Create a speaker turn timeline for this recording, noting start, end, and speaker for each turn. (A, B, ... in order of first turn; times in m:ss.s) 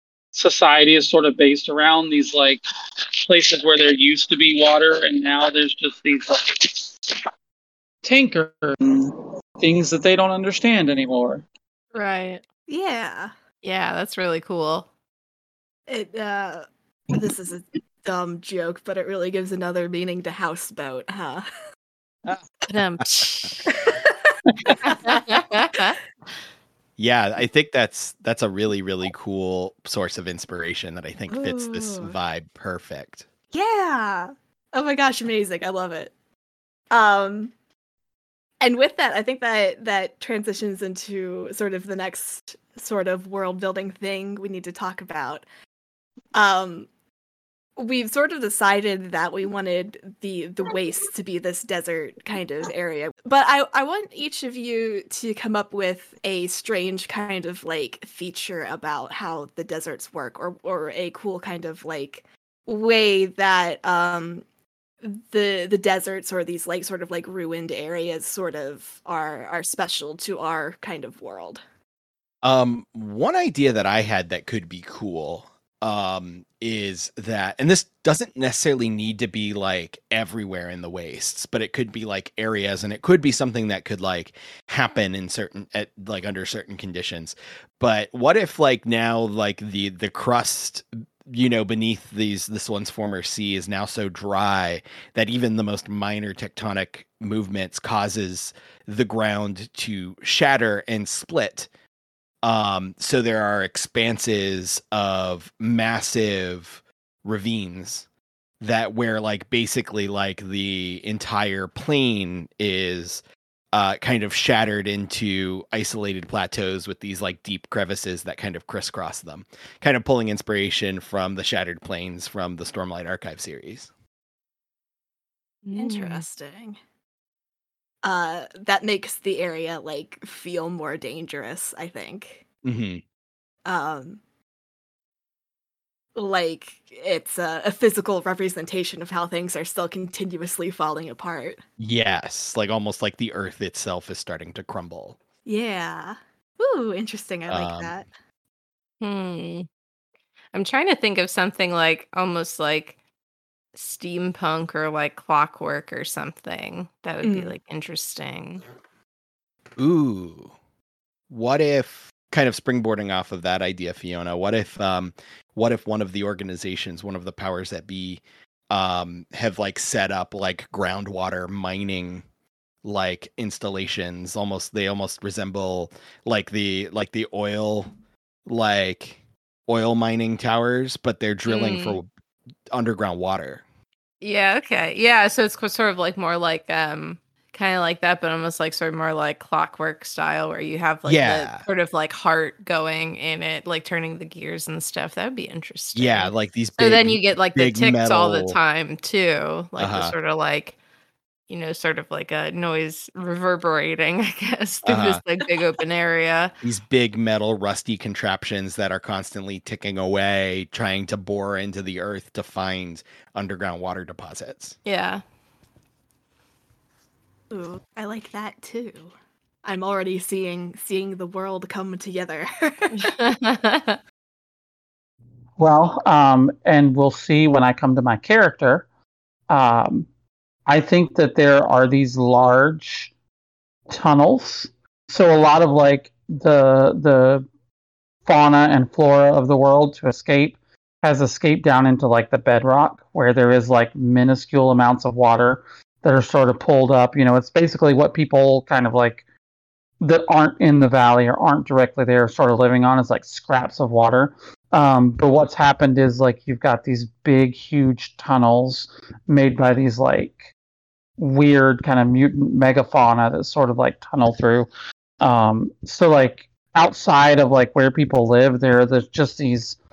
0:00.3-0:02.6 A
0:03.2-0:06.9 A
0:08.1-0:08.8 B
0:09.6-0:11.4 A
0:11.9-0:12.4 C
0:12.7-0:13.3 D
0:13.6-0:14.9 C
0:15.9-0:21.5 D
0:22.7-0:23.7 C
0:23.7-0:25.2 D
0:25.1-0:26.0 C
0:27.0-0:33.2 E
0:31.3-0:32.1 D
0:33.5-0:36.1 D
0:36.9-0:37.5 D
0:38.6-0:45.4 D
0:46.4-0:46.9 D
0:47.8-1:04.4 D
1:05.0-1:11.6 D
1:12.4-1:41.7 E
1:42.4-1:48.1 E
1:48.6-1:53.2 E
1:53.7-2:03.9 E
2:05.6-2:06.2 C
2:05.8-2:06.8 D
2:08.0-2:12.4 D
2:12.6-2:13.0 E
2:13.7-2:14.2 D
2:16.2-2:21.6 D
2:21.8-2:25.2 E
2:25.5-2:28.1 D
2:27.5-2:27.9 E
2:29.0-2:29.7 C
2:30.5-2:33.0 C
2:33.8-2:38.6 C
2:37.2-2:37.5 D
2:39.8-2:40.5 E
2:41.3-2:52.2 E
2:52.8-2:57.9 E
2:58.5-3:02.1 E
3:01.5-3:02.0 C
3:02.7-3:03.6 E
3:04.2-3:20.8 C
3:11.0-3:11.6 E
3:16.0-3:18.6 E
3:19.8-3:20.2 E
3:21.5-3:26.5 C
3:24.9-3:25.2 E
3:26.6-3:34.8 E
3:34.9-3:35.2 C
3:37.5-3:39.1 D
3:39.6-3:43.1 D
3:43.0-3:44.0 C
3:45.6-3:48.8 B
3:49.5-3:50.1 B
3:50.7-3:53.1 B
3:53.9-3:57.5 B
3:58.2-4:09.2 B
4:10.0-4:20.5 B
4:21.2-4:24.7 B
4:25.2-4:29.8 B